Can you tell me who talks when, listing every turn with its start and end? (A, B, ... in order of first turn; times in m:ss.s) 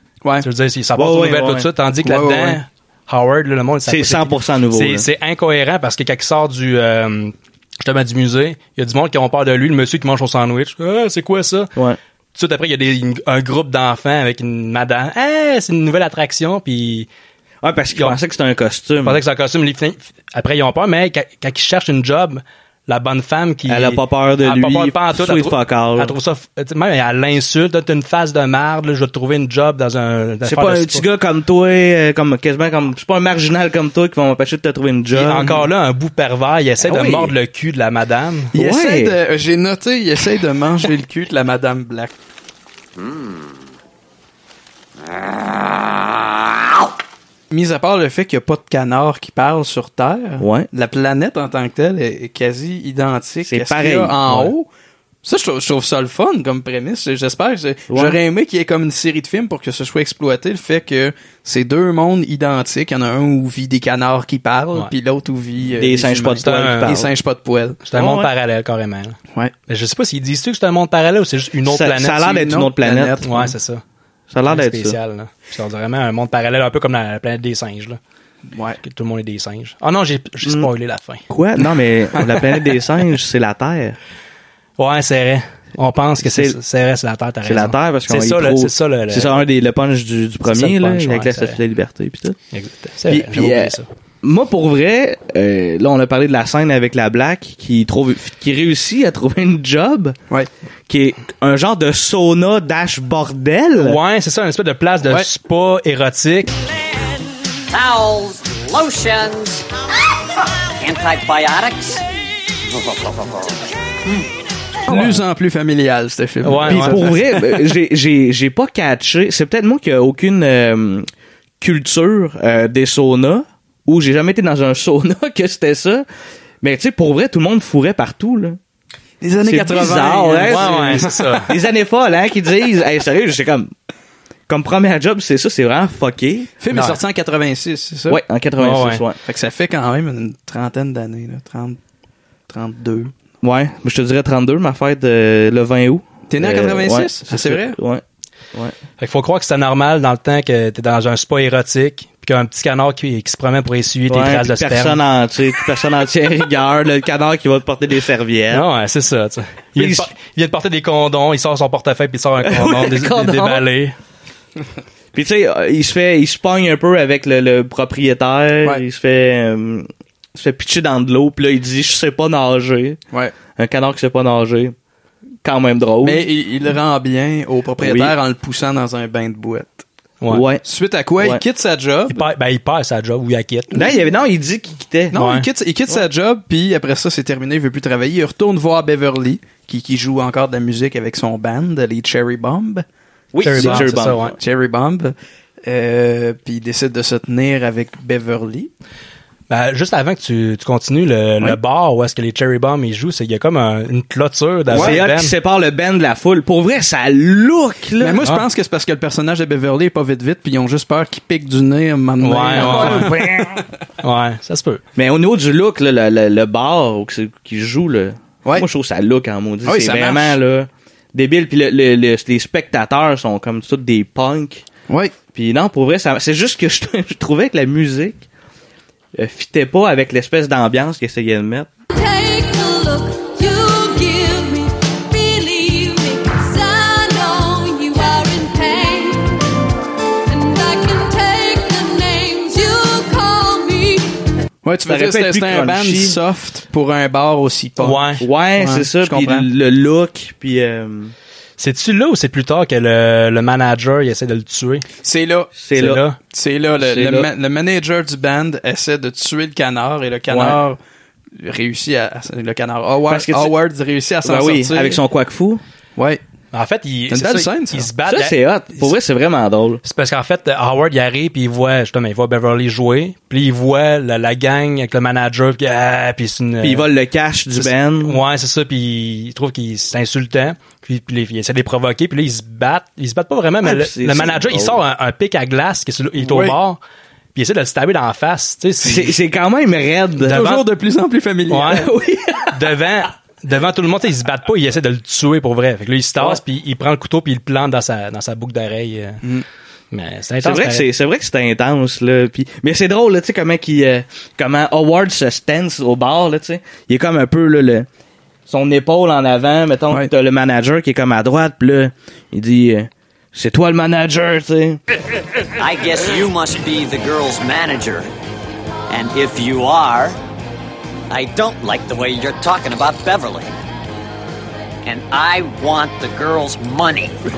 0:00.4-0:11.7 A
0:01.0-0:01.7 B
0:02.0-0:02.6 C
0:03.9-0:05.1 B
0:12.4-0:17.1 A
0:17.6-0:19.2 B
0:19.0-0:31.0 A
0:23.7-0:26.1 B
0:30.4-0:35.6 B
0:35.1-0:38.5 A
0:36.8-0:37.3 B
0:38.5-0:42.1 C
0:38.5-0:39.2 B
0:43.0-0:43.5 D
0:45.1-0:46.7 D
0:47.5-0:54.7 C
0:50.4-0:50.7 B
0:53.4-0:54.5 B
0:55.2-1:07.8 C
0:57.9-0:58.2 B
1:05.8-1:07.1 B
1:06.4-1:07.0 A
1:07.9-1:12.4 A
1:07.9-1:08.3 B
1:11.7-1:13.2 B
1:12.3-1:13.5 C
1:13.2-1:13.8 A
1:14.3-1:15.0 B
1:14.5-1:18.0 A
1:18.5-1:18.8 C
1:18.8-1:21.2 A
1:20.4-1:20.7 B
1:21.3-1:24.0 B
1:24.8-1:29.5 A
1:26.2-1:26.6 B
1:27.4-1:32.4 B
1:30.5-1:31.6 A
1:32.5-1:33.8 A
1:33.1-1:40.2 B
1:40.9-1:44.0 B
1:43.8-1:46.6 A
1:47.7-1:49.6 D
1:50.8-1:52.0 D
1:52.7-1:53.5 D
1:54.9-1:57.4 C
1:56.4-1:57.2 A
1:56.7-2:01.1 B
2:01.6-2:06.0 B
2:06.6-2:08.6 B
2:09.2-2:11.5 C
2:09.4-2:13.7 B
2:10.4-2:11.5 A
2:14.5-2:16.5 B
2:16.6-2:18.2 C
2:16.7-2:17.0 A
2:18.1-2:19.2 B
2:18.6-2:19.0 A
2:19.2-2:21.8 C
2:22.5-2:23.1 C
2:23.4-2:28.0 B
2:26.3-2:27.8 C
2:29.0-2:35.0 A
2:34.1-2:38.6 B
2:38.5-2:44.0 A
2:39.8-2:40.1 B
2:42.4-2:43.6 B
2:45.1-2:53.0 B
2:53.6-2:54.8 B
2:55.4-2:56.2 B
2:56.0-2:59.8 C
2:57.8-2:58.1 B
3:00.3-3:00.6 B
3:00.6-3:02.2 C
3:02.1-3:03.9 A
3:03.7-3:05.2 B
3:05.1-3:12.8 C
3:05.1-3:05.5 A
3:13.3-3:14.3 B
3:13.4-3:14.4 A
3:13.5-3:18.7 C
3:19.5-3:25.3 A
3:24.7-3:25.0 C
3:24.7-3:28.2 B
3:28.0-3:33.6 C
3:32.2-3:33.1 A
3:32.6-3:33.6 B
3:34.0-3:34.8 A
3:35.0-3:44.6 B
3:39.6-3:40.4 C
3:44.9-3:45.2 C
3:45.3-3:48.3 B
3:49.2-3:51.7 B
3:51.9-3:59.4 E
4:00.3-4:04.0 E
4:04.6-4:09.5 C
4:04.9-4:06.2 B
4:07.8-4:08.2 A
4:08.2-4:11.1 B
4:11.6-4:14.9 A
4:15.0-4:15.5 C
4:15.6-4:16.0 B
4:15.7-4:16.2 A
4:16.3-4:20.8 C
4:16.8-4:17.3 B
4:20.3-4:20.6 B
4:21.4-4:25.0 C
4:23.1-4:23.5 B
4:24.2-4:25.6 B
4:26.0-4:26.2 C
4:26.5-4:28.9 A
4:27.1-4:27.9 C
4:28.1-4:29.8 B
4:29.8-4:36.9 A
4:36.6-4:38.2 B
4:37.6-4:46.8 A
4:43.6-4:44.8 B
4:46.2-4:46.6 C
4:47.4-4:49.2 A
4:48.8-4:50.4 B
4:50.2-4:51.9 C
4:50.3-4:50.6 A
4:51.5-4:51.9 A
4:51.8-4:52.8 B
4:52.5-4:59.2 A
4:59.9-5:00.9 A
5:00.4-5:07.9 B
5:08.5-5:14.8 B
5:15.6-5:18.1 D
5:18.9-5:20.2 D
5:21.1-5:23.5 D
5:24.8-5:27.1 D